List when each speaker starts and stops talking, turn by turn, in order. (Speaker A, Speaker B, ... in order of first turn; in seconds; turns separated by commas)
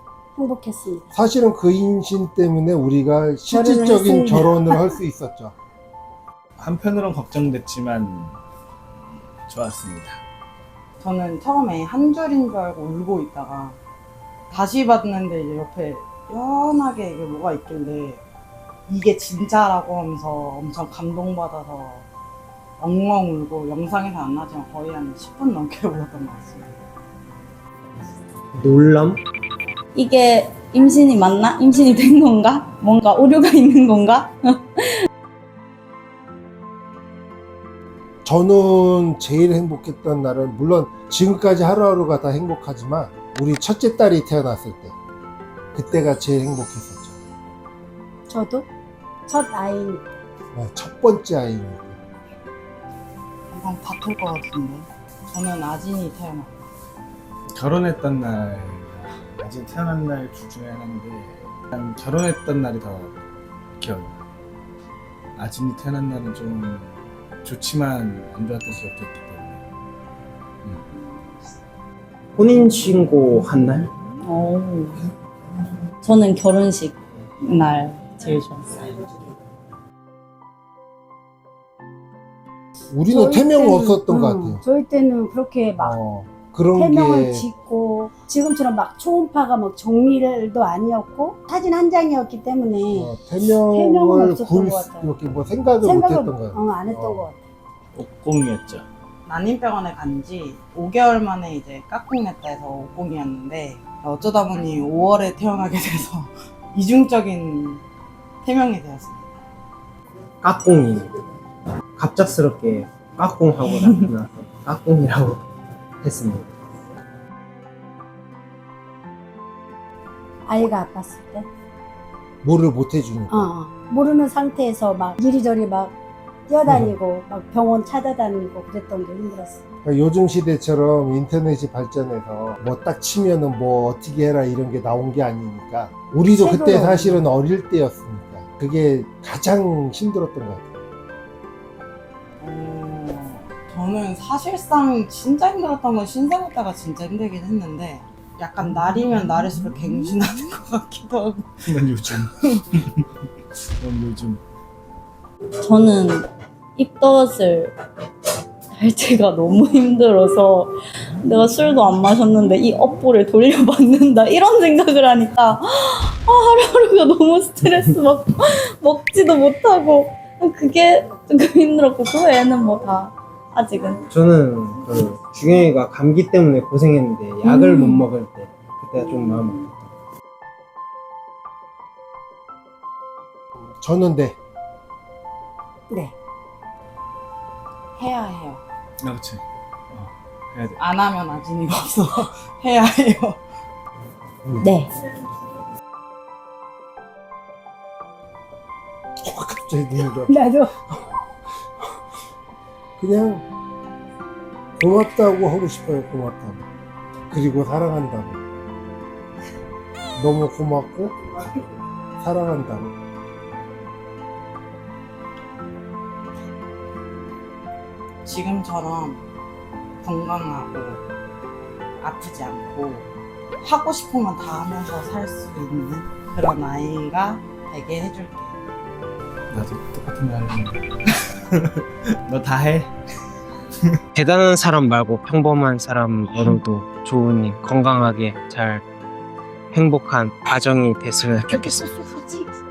Speaker A: 0.3-1.1, Speaker B: 1.1-5.5, Speaker A: 3.5-5.0, Speaker C: 6.6-8.4, Speaker C: 9.4-10.2, Speaker D: 11.0-13.8, Speaker D: 14.5-18.2, Speaker D: 18.9-22.0, Speaker D: 22.8-26.7, Speaker E: 28.6-29.2, Speaker F: 29.9-35.0, Speaker B: 38.2-44.9, Speaker B: 45.7-47.2, Speaker A: 48.3-48.7, Speaker A: 49.3-50.0, Speaker B: 50.5-52.0, Speaker D: 53.5-56.5, Speaker C: 57.5-63.1, Speaker C: 63.8-64.2, Speaker C: 65.3-69.6, Speaker E: 72.3-73.9, Speaker F: 74.2-75.0, Speaker F: 76.0-79.1, Speaker B: 82.9-84.6, Speaker A: 83.1-86.0, Speaker B: 85.8-87.5, Speaker A: 86.7-93.1, Speaker B: 92.9-97.3, Speaker A: 93.7-95.1, Speaker A: 95.8-97.4, Speaker C: 97.9-98.8, Speaker D: 99.2-107.8, Speaker D: 108.4-109.2, Speaker E: 110.4-111.1, Speaker E: 112.0-115.4, Speaker D: 113.8-114.0, Speaker E: 116.0-116.5, Speaker A: 120.5-121.5, Speaker B: 122.4-123.5, Speaker A: 123.3-125.9, Speaker A: 126.5-129.6, Speaker B: 126.7-127.0, Speaker B: 129.8-140.7, Speaker A: 136.3-137.2, Speaker D: 142.4-151.6, Speaker C: 151.7-153.1, Speaker C: 153.8-154.4, Speaker F: 155.6-157.7, Speaker F: 158.7-174.0, Speaker E: 174.1-179.8, Speaker F: 177.4-177.9, Speaker B: 183.8-184.4, Speaker D: 187.9-188.6, Speaker C: 189.0-190.8, Speaker D: 190.8-193.4, Speaker A: 194.6-194.9, Speaker B: 199.2-201.2, Speaker A: 200.3-200.7, Speaker B: 203.0-203.4, Speaker B: 204.8-206.7, Speaker B: 207.3-208.4, Speaker B: 210.2-211.2, Speaker B: 212.2-212.9, Speaker D: 218.2-219.2, Speaker D: 220.0-221.0, Speaker D: 222.0-223.1, Speaker D: 223.6-228.5, Speaker C: 229.5-232.9, Speaker E: 234.1-238.8, Speaker E: 239.7-241.9